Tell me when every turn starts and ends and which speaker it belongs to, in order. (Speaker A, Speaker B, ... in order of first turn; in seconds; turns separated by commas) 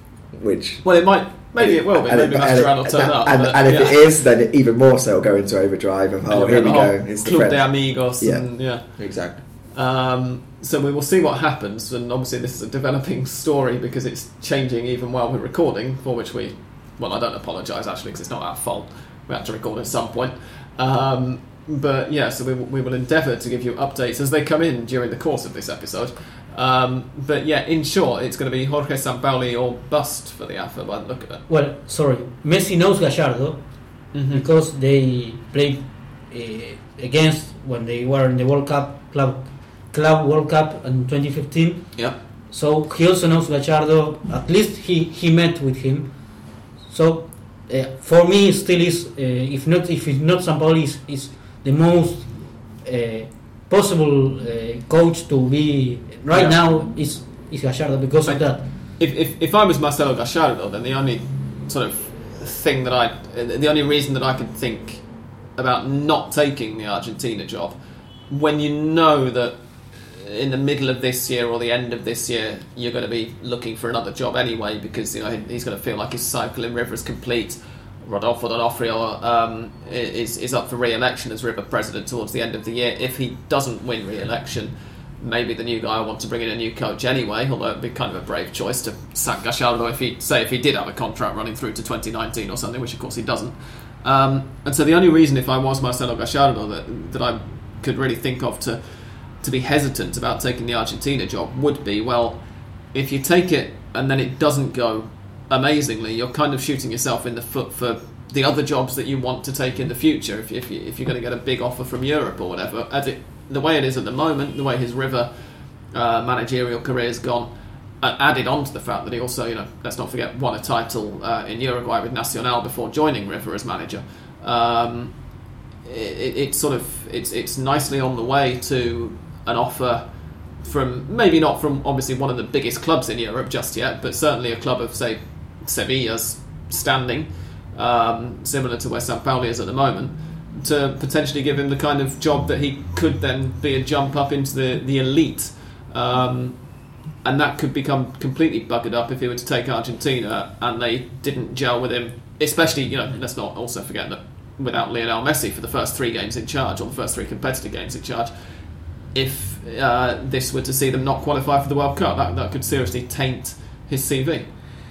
Speaker A: 0.3-0.9, Speaker B: 0.8-4.0, Speaker A: 1.6-9.4, Speaker B: 6.3-8.9, Speaker B: 9.7-31.4, Speaker C: 31.5-33.7, Speaker B: 34.1-34.4, Speaker C: 34.3-58.6, Speaker B: 56.3-56.6, Speaker B: 58.2-67.8, Speaker B: 68.3-115.3, Speaker B: 115.9-125.2, Speaker B: 125.8-130.0, Speaker B: 130.6-158.3, Speaker B: 159.1-164.5